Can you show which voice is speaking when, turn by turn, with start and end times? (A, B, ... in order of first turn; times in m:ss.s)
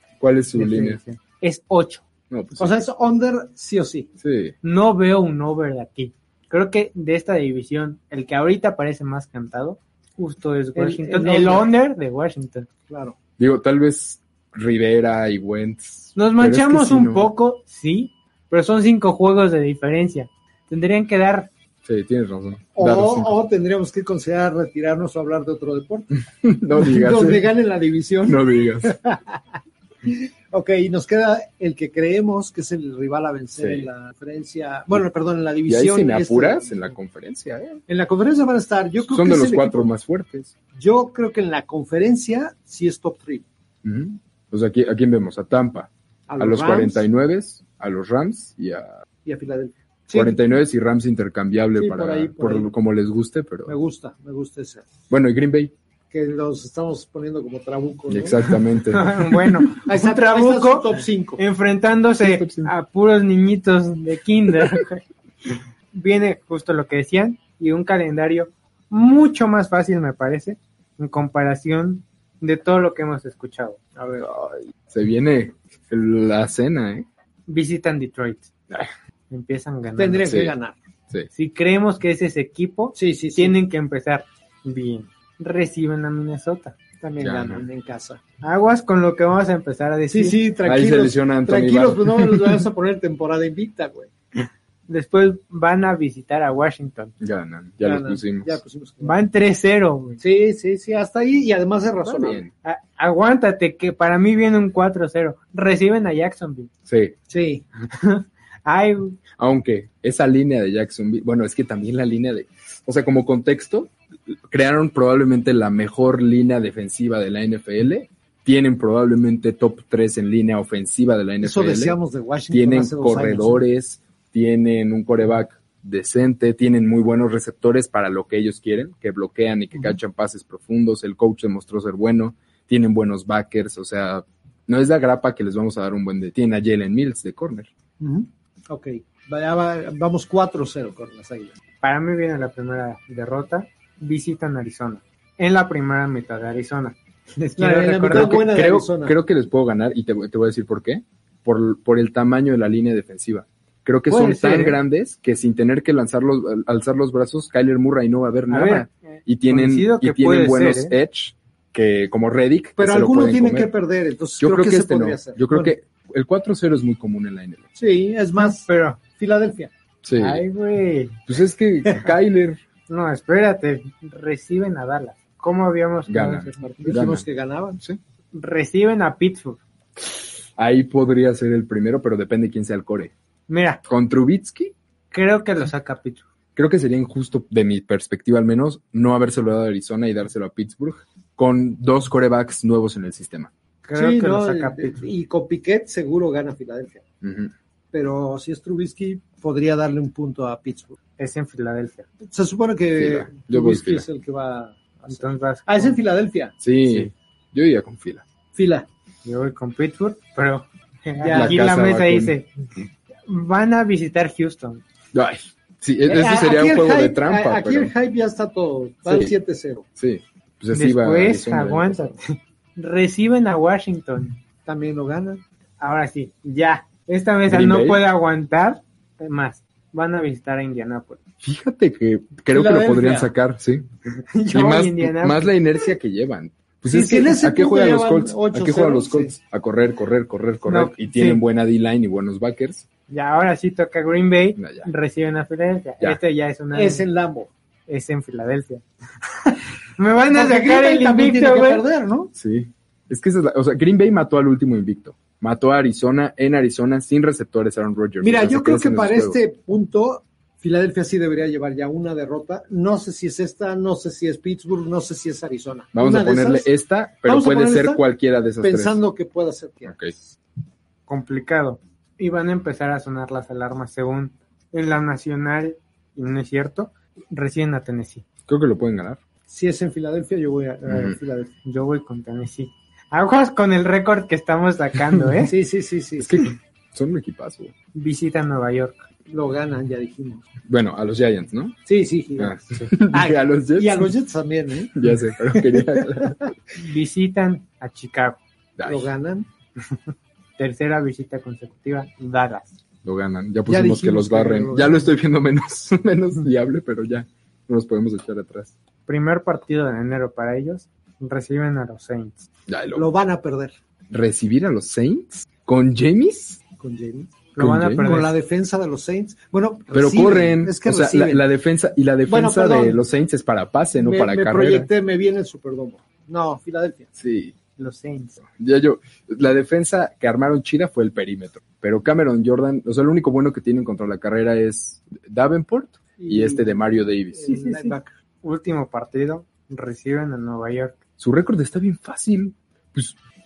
0:00.2-0:01.0 A
0:00.6-0:02.0 B
0:02.3-0:02.8 A
0:02.6-0:04.1 C
0:04.2-0:04.5 A
0:04.6-0:12.7 B
0:10.7-0:11.7 C
0:12.9-0:13.1 C
0:13.4-0:17.3 A
0:16.2-0:21.5 B
0:21.8-0:23.4 A
0:22.8-0:26.2 C
0:26.4-0:27.5 A
0:26.8-0:29.4 C
0:28.2-0:28.9 A
0:30.0-0:36.8 C
0:33.6-0:33.9 A
0:35.6-0:37.8 A
0:37.9-0:39.9 C
0:39.0-0:40.5 A
0:40.7-0:43.4 C
0:43.8-0:48.9 A
0:46.3-0:47.0 C
0:49.2-0:50.4 C
0:50.1-0:53.8 A
0:51.8-0:52.7 C
0:53.6-0:54.9 C
0:55.1-0:55.7 A
0:56.1-0:58.6 C
0:58.1-0:59.1 A
0:58.9-1:05.0 B
0:59.8-1:01.4 C
1:02.2-1:02.7 A
1:05.9-1:13.8 B
1:14.0-1:14.3 C
1:14.2-1:17.0 A
1:17.5-1:18.5 B
1:19.3-1:20.3 B
1:20.0-1:20.8 C
1:20.2-1:20.5 A
1:21.3-1:26.7 B
1:22.9-1:23.6 C
1:27.0-1:28.2 C
1:27.2-1:27.6 A
1:28.4-1:30.4 B
1:30.1-1:34.1 C
1:30.6-1:32.6 A
1:34.9-1:37.1 B
1:37.2-1:38.6 A
1:37.8-1:39.2 C
1:39.0-1:40.2 B
1:40.2-1:42.4 C
1:42.0-1:42.5 A
1:42.6-1:46.7 B
1:46.9-1:47.1 A
1:47.3-1:47.6 C
1:47.9-1:49.2 B
1:49.4-2:02.0 A
2:01.4-2:03.6 C
2:02.5-2:17.7 A
2:18.0-2:21.5 C
2:21.8-2:28.4 B
2:27.6-2:29.1 C
2:28.1-2:43.7 A
2:34.1-2:34.8 B
2:38.5-2:40.9 B
2:42.8-2:45.7 C
2:44.4-2:47.7 A
2:47.8-2:49.7 C
2:48.4-2:49.0 B
2:50.0-2:50.4 A
2:50.1-2:51.2 B
2:51.3-2:52.6 A
2:52.9-2:56.9 B
2:56.1-2:57.3 A
2:56.8-2:57.8 C
2:58.3-2:59.6 B
3:00.0-3:03.1 A
3:03.5-3:03.8 B
3:03.9-3:04.7 A
3:05.1-3:06.2 B
3:06.6-3:13.5 A
3:13.8-3:15.0 B
3:13.9-3:17.0 C
3:17.2-3:17.5 A
3:17.9-3:21.0 C
3:21.2-3:22.0 B
3:22.2-3:26.6 C
3:23.0-3:24.0 A
3:25.1-3:26.0 B
3:26.6-3:28.2 A
3:26.8-3:27.1 B
3:28.5-3:28.9 C
3:29.2-3:32.5 B
3:31.2-3:31.6 C
3:31.3-3:32.4 A
3:33.3-3:34.8 B
3:35.1-3:37.9 A
3:36.0-3:39.9 C
3:39.0-3:39.3 A
3:40.0-3:42.1 A
3:40.7-3:44.4 B
3:44.6-3:45.4 C
3:45.8-3:51.2 B
3:47.5-3:48.0 A
3:51.4-3:53.9 A
3:52.5-3:53.3 C
3:54.3-3:55.6 B
3:54.5-4:02.8 A
3:56.9-3:59.3 C
4:00.6-4:01.4 B
4:03.1-4:07.1 B
4:04.6-4:04.9 A
4:06.7-4:07.5 C
4:07.9-4:08.8 B
4:09.4-4:11.8 B
4:10.3-4:12.3 C
4:12.3-4:19.4 A
4:18.2-4:26.7 C
4:25.9-4:29.0 A
4:27.2-4:28.0 C
4:28.6-4:30.2 C
4:29.8-4:30.1 A
4:31.1-4:38.2 B
4:38.5-4:39.2 A
4:39.5-4:41.5 C
4:40.8-4:41.2 A
4:41.6-4:45.5 B
4:45.4-4:46.3 C
4:46.2-4:47.7 A
4:47.9-4:49.0 B
4:49.3-4:50.4 C
4:50.7-4:51.8 A
4:51.8-4:52.6 C
4:52.4-4:54.1 A
4:53.1-4:56.5 C
4:54.9-4:56.5 A
4:56.8-4:58.4 B
4:58.8-4:59.1 A
4:58.8-4:59.5 C
5:00.6-5:02.7 B
5:03.0-5:08.7 A
5:03.7-5:05.1 C
5:09.1-5:12.4 B
5:12.7-5:13.1 A
5:12.9-5:13.7 C
5:14.1-5:16.6 A
5:16.8-5:17.3 C
5:17.5-5:18.3 B
5:17.6-5:18.2 A
5:18.0-5:21.4 C
5:19.9-5:24.9 A
5:22.2-5:23.0 C
5:24.0-5:27.1 C
5:27.2-5:27.5 A
5:27.8-5:28.4 B
5:28.5-5:37.5 A
5:36.2-5:38.1 C
5:37.4-5:41.0 B
5:41.2-5:43.2 A